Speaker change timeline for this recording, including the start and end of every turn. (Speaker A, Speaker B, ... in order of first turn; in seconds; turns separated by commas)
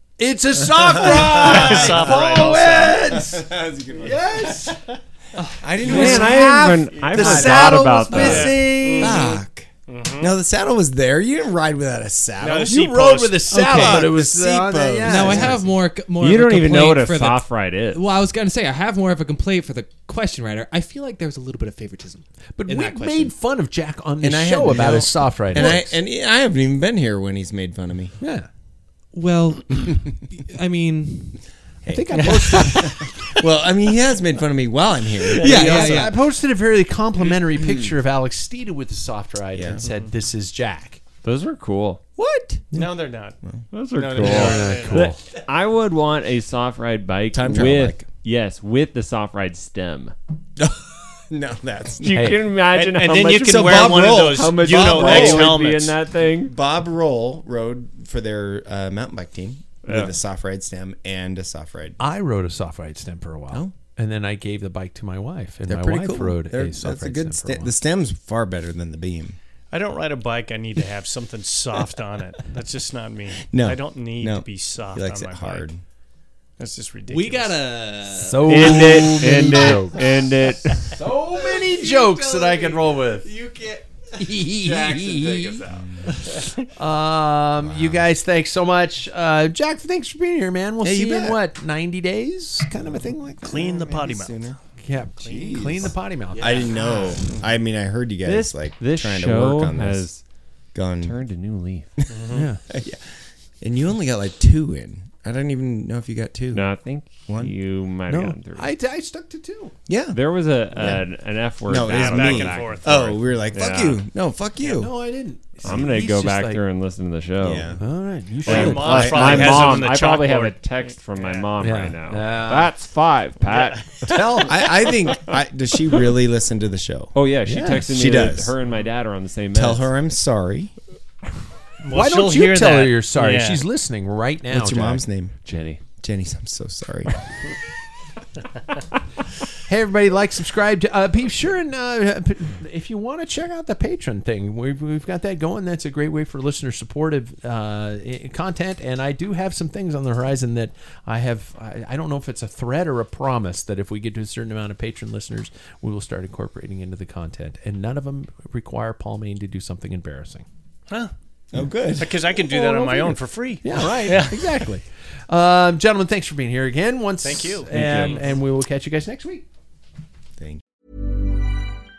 Speaker A: 0.2-3.4, Speaker B: 0.8-2.1, Speaker C: 1.1-3.1, Speaker B: 3.0-4.7, Speaker A: 4.0-4.8, Speaker D: 5.4-6.2, Speaker B: 5.6-12.8, Speaker A: 5.8-9.3, Speaker E: 5.9-8.7, Speaker C: 7.0-10.4, Speaker C: 12.4-13.4, Speaker A: 12.7-15.6, Speaker D: 13.5-14.1, Speaker B: 13.6-15.6, Speaker D: 15.1-23.3, Speaker E: 16.1-18.1, Speaker A: 22.6-25.9, Speaker B: 24.2-28.1, Speaker D: 25.6-25.9, Speaker A: 28.2-28.5, Speaker D: 29.1-31.4, Speaker B: 31.9-36.2, Speaker A: 31.9-33.1, Speaker D: 32.1-32.8, Speaker A: 35.4-41.0, Speaker D: 35.4-36.2, Speaker B: 37.4-37.9, Speaker B: 39.5-39.8, Speaker C: 39.8-40.1, Speaker E: 41.2-42.0, Speaker B: 42.1-42.7, Speaker A: 42.7-43.0, Speaker C: 42.7-43.4, Speaker E: 43.7-50.1, Speaker C: 43.9-45.1, Speaker A: 44.1-45.2, Speaker B: 47.3-48.1, Speaker B: 50.6-52.2, Speaker E: 52.0-56.5, Speaker A: 52.1-52.4, Speaker C: 52.6-56.0, Speaker B: 53.4-55.6, Speaker B: 56.5-62.0, Speaker E: 59.8-60.1, Speaker A: 62.0-67.7, Speaker B: 65.7-69.4, Speaker C: 69.7-75.7, Speaker B: 73.5-75.8, Speaker C: 76.6-77.7, Speaker D: 77.1-79.5, Speaker A: 78.2-80.0, Speaker E: 78.5-81.0, Speaker D: 81.0-85.8, Speaker A: 81.0-83.3, Speaker A: 84.2-85.6, Speaker B: 85.7-86.2, Speaker A: 86.8-93.7, Speaker B: 87.6-88.1, Speaker B: 90.8-91.4, Speaker B: 92.8-94.6, Speaker C: 93.4-94.6, Speaker A: 94.8-96.8, Speaker C: 95.2-95.9, Speaker B: 95.2-100.1, Speaker D: 96.3-97.2, Speaker E: 98.2-100.2, Speaker B: 100.7-101.2, Speaker E: 101.0-101.9, Speaker C: 102.1-102.5, Speaker A: 102.3-102.6, Speaker B: 102.7-106.7, Speaker E: 106.5-108.7, Speaker B: 107.2-107.5, Speaker A: 108.1-109.7, Speaker B: 109.9-111.1, Speaker E: 110.1-114.0, Speaker B: 111.6-114.9, Speaker C: 111.8-113.3, Speaker A: 114.6-116.6, Speaker E: 115.6-117.8, Speaker B: 117.4-117.8, Speaker A: 117.8-119.7, Speaker B: 118.4-119.8, Speaker E: 118.5-124.2, Speaker C: 118.5-121.5, Speaker A: 121.6-122.7, Speaker C: 123.4-124.0, Speaker A: 124.0-124.5, Speaker B: 124.4-127.1, Speaker E: 127.1-129.9, Speaker A: 127.5-127.9, Speaker B: 127.9-128.5, Speaker B: 129.5-130.7, Speaker C: 131.8-133.6, Speaker A: 131.9-135.0, Speaker B: 134.5-135.3, Speaker E: 135.4-135.8, Speaker B: 136.0-137.2, Speaker A: 139.7-160.4, Speaker B: 161.5-163.1, Speaker C: 161.9-164.7, Speaker A: 163.6-169.4, Speaker C: 167.2-168.3, Speaker E: 167.7-168.2